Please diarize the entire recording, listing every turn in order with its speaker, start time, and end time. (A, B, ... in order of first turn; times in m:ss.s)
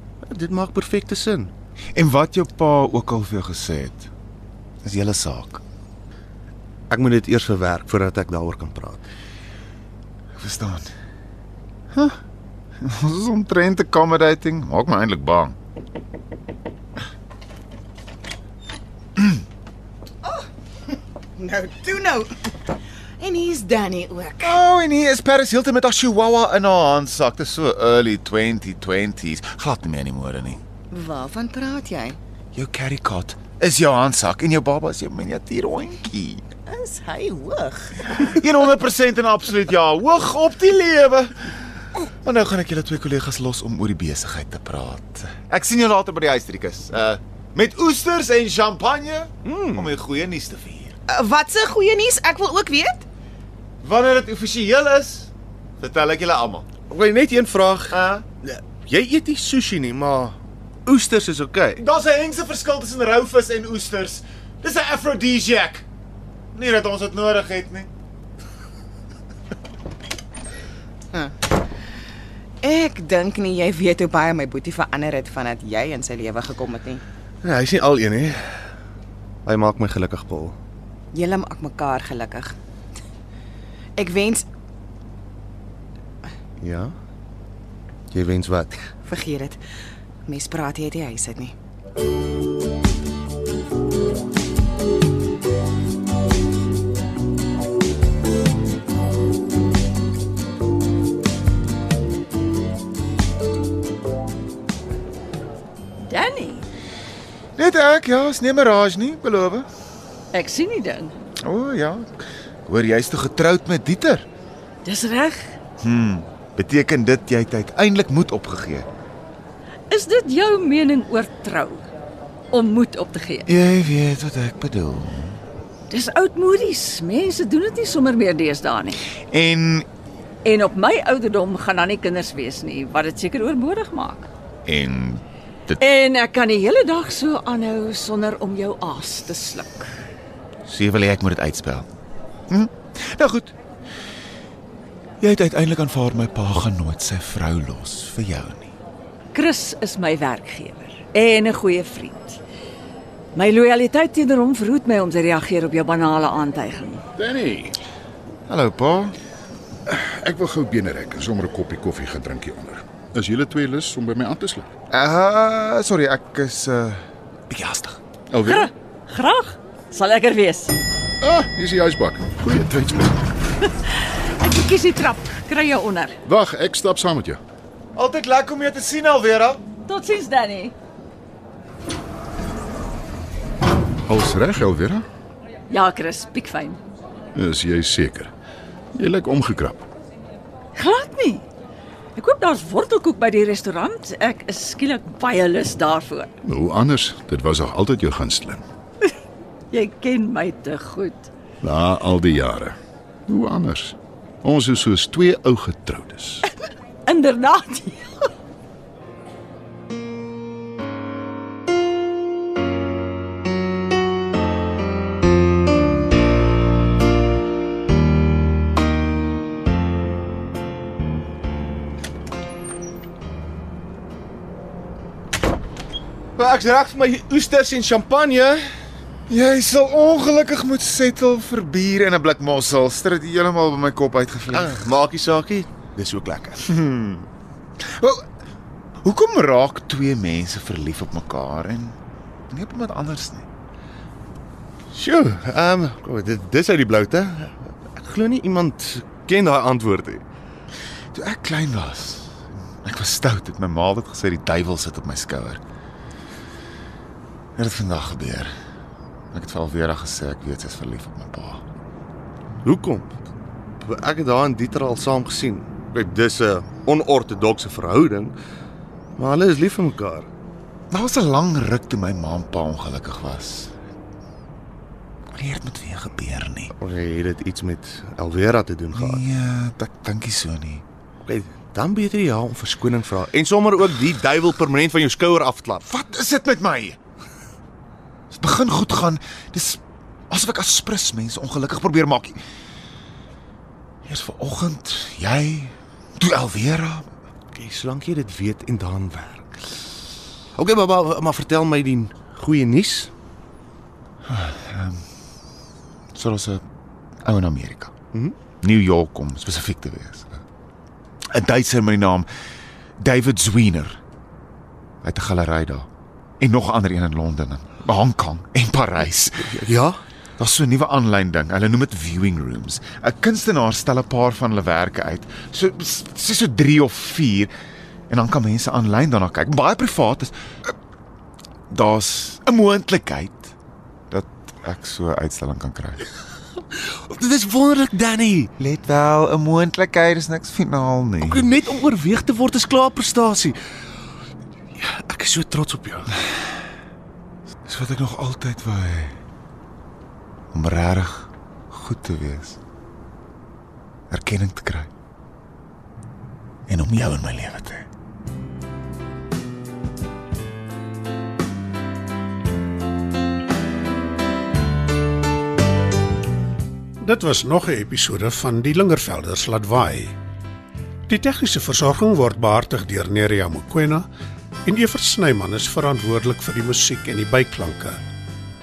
0:00.2-0:01.5 A
0:01.9-0:04.1 B
0:04.8-0:05.6 B
0:06.9-0:09.0 A
0:10.4-0:10.9 B
0:11.9-0:12.2 B
0:12.8-0:15.6 B
0:21.4-0:22.5 C
0:23.2-0:24.6 C
0:24.4-0:30.6 B
0:30.9-0:32.2 C
0:32.5-0:36.4 B
0:36.7-0:38.2 C
0:38.2-0:50.9 B
0:49.4-0:49.9 A
0:51.1-0:53.0 C
0:53.8-0:56.6 B
0:56.9-1:01.8 A
0:57.9-0:58.2 B
1:01.8-1:05.8 B
1:06.5-1:07.9 B
1:12.6-1:17.0 C
1:17.4-1:18.6 A
1:19.4-1:20.6 A
1:21.1-1:22.5 C
1:24.0-1:24.4 C
1:26.6-1:26.9 A
1:28.1-1:28.9 A
1:29.1-1:29.6 C
1:30.3-1:31.5 C
1:46.0-1:46.7 D
1:47.6-1:49.7 B
1:50.3-1:51.2 D
1:51.4-1:54.2 B
1:54.8-1:55.6 D
1:55.8-1:58.9 B
1:59.9-2:01.9 D
2:02.5-2:03.5 D
2:03.4-2:05.4 B
2:05.9-2:09.0 D
2:09.2-2:09.9 B
2:10.4-2:14.3 D
2:14.6-2:15.8 B
2:15.8-2:19.9 D
2:20.6-2:21.9 B
2:22.5-2:23.5 B
2:25.2-2:28.7 B
2:29.3-2:32.4 D
2:33.3-2:37.0 D
2:37.2-2:37.8 E
2:38.5-2:39.2 B
2:39.9-2:44.7 E
2:44.9-2:48.0 B
2:48.3-2:48.7 E
2:48.5-2:50.8 D
2:51.2-2:53.2 E
2:53.8-2:56.2 D
2:56.2-2:57.4 E
2:57.9-2:59.6 B
2:59.8-3:00.7 D
3:04.1-3:05.0 E
3:05.7-3:06.8 D
3:07.3-3:08.3 E
3:09.0-3:09.8 E
3:10.7-3:11.4 D
3:12.2-3:16.3 D
3:16.4-3:18.6 E
3:19.7-3:21.3 D
3:21.6-3:22.8 E
3:23.3-3:26.4 E
3:27.0-3:28.1 D
3:46.4-3:48.6 A
3:49.3-3:54.8 B
3:54.5-3:56.6 A
3:56.6-3:57.3 B
3:57.8-3:58.2 B
3:59.0-4:02.0 B
4:02.5-4:03.4 B
4:04.9-4:10.2 A
4:11.1-4:15.6 B
4:17.6-4:18.5 B
4:19.3-4:21.6 B
4:22.6-4:23.1 A
4:23.8-4:28.4 A
4:29.2-4:30.3 A
4:30.9-4:33.7 B
4:35.4-4:36.7 B
4:36.7-4:39.2 A
4:38.9-4:40.8 B
4:41.2-4:45.8 A
4:45.8-4:47.0 B
4:48.3-4:52.4 B
4:54.0-4:57.1 B
4:57.5-4:59.6 A
5:00.5-5:03.1 A
5:04.2-5:05.0 B
5:06.1-5:06.6 B
5:07.2-5:07.9 B
5:08.6-5:10.4 B
5:11.3-5:12.3 B
5:13.0-5:14.0 B
5:15.0-5:15.9 B
5:16.4-5:19.6 B
5:19.5-5:20.0 A
5:20.4-5:27.5 B
5:28.1-5:30.7 B
5:31.7-5:33.5 B
5:34.1-5:36.0 B
5:36.7-5:38.5 A
5:38.6-5:41.5 B
5:41.2-5:43.6 A
5:44.8-5:46.1 A
5:47.6-5:49.2 B
5:50.5-5:52.6 B
5:54.1-5:54.9 B
5:56.7-5:57.9 B
6:07.0-6:10.1 F
6:11.1-6:14.1 F
6:14.6-6:18.0 F